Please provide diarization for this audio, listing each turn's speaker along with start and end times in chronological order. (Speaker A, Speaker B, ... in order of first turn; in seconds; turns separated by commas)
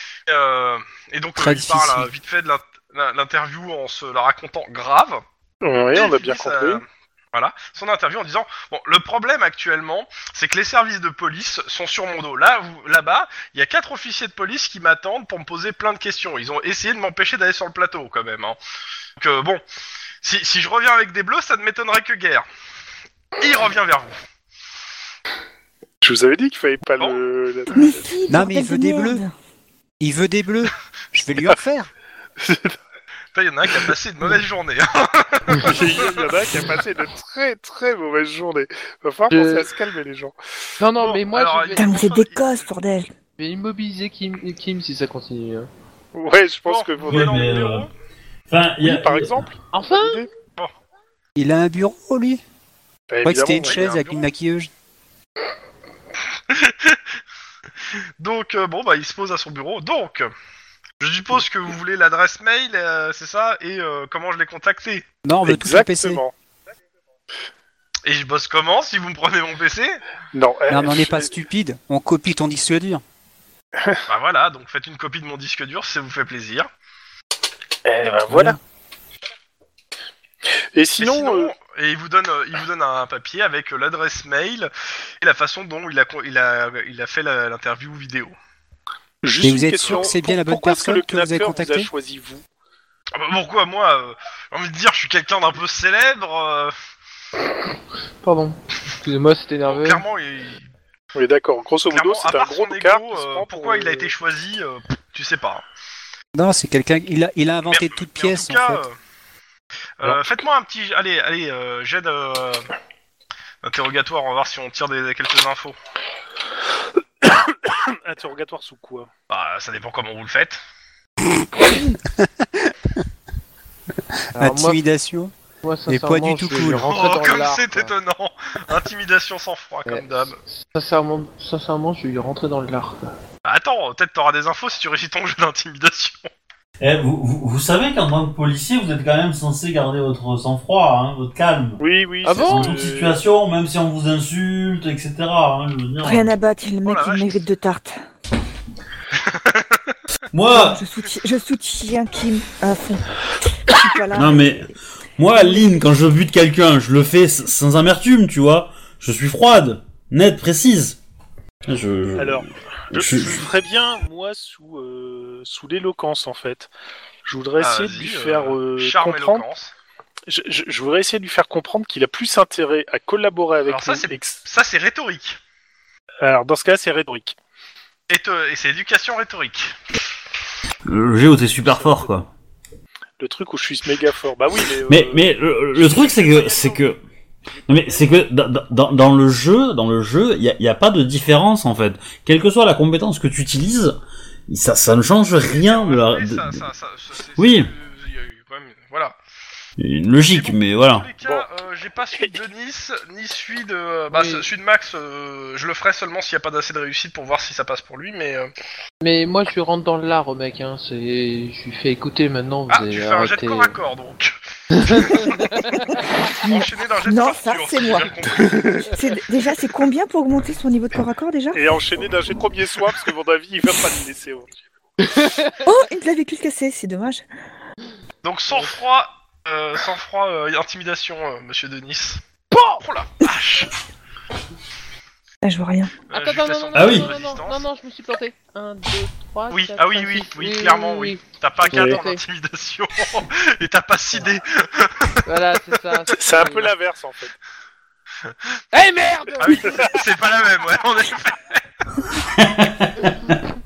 Speaker A: 0.3-5.2, Speaker B: 1.4-2.1, Speaker C: 5.6-6.8, Speaker A: 5.9-18.6, Speaker A: 19.2-19.6, Speaker A: 20.2-22.5, Speaker A: 23.4-24.2, Speaker C: 26.0-27.8, Speaker D: 27.7-29.3, Speaker B: 28.3-29.2, Speaker B: 30.0-31.9, Speaker C: 32.4-32.8, Speaker A: 33.4-36.3, Speaker C: 35.5-40.4, Speaker E: 39.3-39.7, Speaker E: 40.8-41.9, Speaker A: 41.0-42.6, Speaker D: 41.8-43.1, Speaker E: 43.4-45.7, Speaker C: 46.1-47.7, Speaker A: 46.7-47.9, Speaker F: 47.1-47.9, Speaker F: 48.5-49.5, Speaker C: 48.8-50.3, Speaker E: 49.7-50.3, Speaker B: 51.4-52.4, Speaker C: 53.1-54.1, Speaker B: 53.2-54.7, Speaker A: 53.7-54.1, Speaker A: 56.5-57.0, Speaker A: 58.2-60.3, Speaker A: 61.0-65.0, Speaker B: 65.2-66.2, Speaker C: 65.5-66.3, Speaker A: 68.0-70.0, Speaker C: 70.3-71.3, Speaker B: 70.7-73.0, Speaker A: 74.1-76.7, Speaker C: 77.8-78.6, Speaker B: 78.3-78.6, Speaker C: 80.7-81.5, Speaker A: 81.0-88.3, Speaker C: 89.2-92.5, Speaker B: 89.4-91.9, Speaker A: 89.8-90.1, Speaker A: 93.2-96.7, Speaker E: 98.2-100.0, Speaker A: 99.7-100.7, Speaker C: 101.2-104.1, Speaker A: 101.9-105.7, Speaker B: 106.3-108.8, Speaker A: 107.7-109.0, Speaker A: 110.0-112.7, Speaker A: 113.6-115.8, Speaker C: 117.2-119.1, Speaker A: 119.3-120.6, Speaker B: 121.4-123.0, Speaker E: 124.4-124.8, Speaker B: 124.4-125.3, Speaker E: 125.6-127.9, Speaker B: 125.9-126.8, Speaker A: 126.8-130.4, Speaker E: 130.6-133.1, Speaker A: 133.4-136.3, Speaker F: 136.8-141.8, Speaker C: 141.8-143.2, Speaker E: 142.2-142.9, Speaker F: 142.4-146.3, Speaker D: 146.0-148.0, Speaker A: 146.8-147.4, Speaker A: 149.2-149.9, Speaker F: 150.3-150.8, Speaker D: 150.5-154.8, Speaker F: 154.1-161.0, Speaker D: 155.3-155.7, Speaker F: 161.7-163.5, Speaker C: 162.2-166.7, Speaker C: 167.2-169.5, Speaker A: 167.6-169.7, Speaker C: 170.3-174.4, Speaker A: 173.7-175.4, Speaker C: 176.2-177.4, Speaker A: 178.1-179.8, Speaker F: 180.9-182.3, Speaker C: 181.6-182.1, Speaker C: 183.2-185.3, Speaker F: 184.9-187.0, Speaker A: 185.8-186.8, Speaker F: 187.7-194.0, Speaker F: 194.5-196.6, Speaker A: 195.4-199.2, Speaker F: 197.4-197.7, Speaker F: 199.8-201.1, Speaker A: 200.2-208.5, Speaker E: 204.1-204.4, Speaker E: 209.0-213.8, Speaker A: 212.7-218.8, Speaker E: 214.7-216.1, Speaker D: 216.4-218.1, Speaker C: 218.4-218.9, Speaker D: 218.9-221.6, Speaker C: 221.5-224.5, Speaker E: 225.0-225.6, Speaker D: 225.6-227.2, Speaker A: 228.2-233.7, Speaker D: 235.4-235.9, Speaker A: 236.1-237.6, Speaker E: 236.1-242.2, Speaker F: 236.8-237.1, Speaker A: 239.5-245.8, Speaker C: 241.7-242.0, Speaker E: 245.2-246.7, Speaker C: 246.2-247.3, Speaker E: 248.7-250.0, Speaker A: 249.4-251.6, Speaker F: 252.3-253.4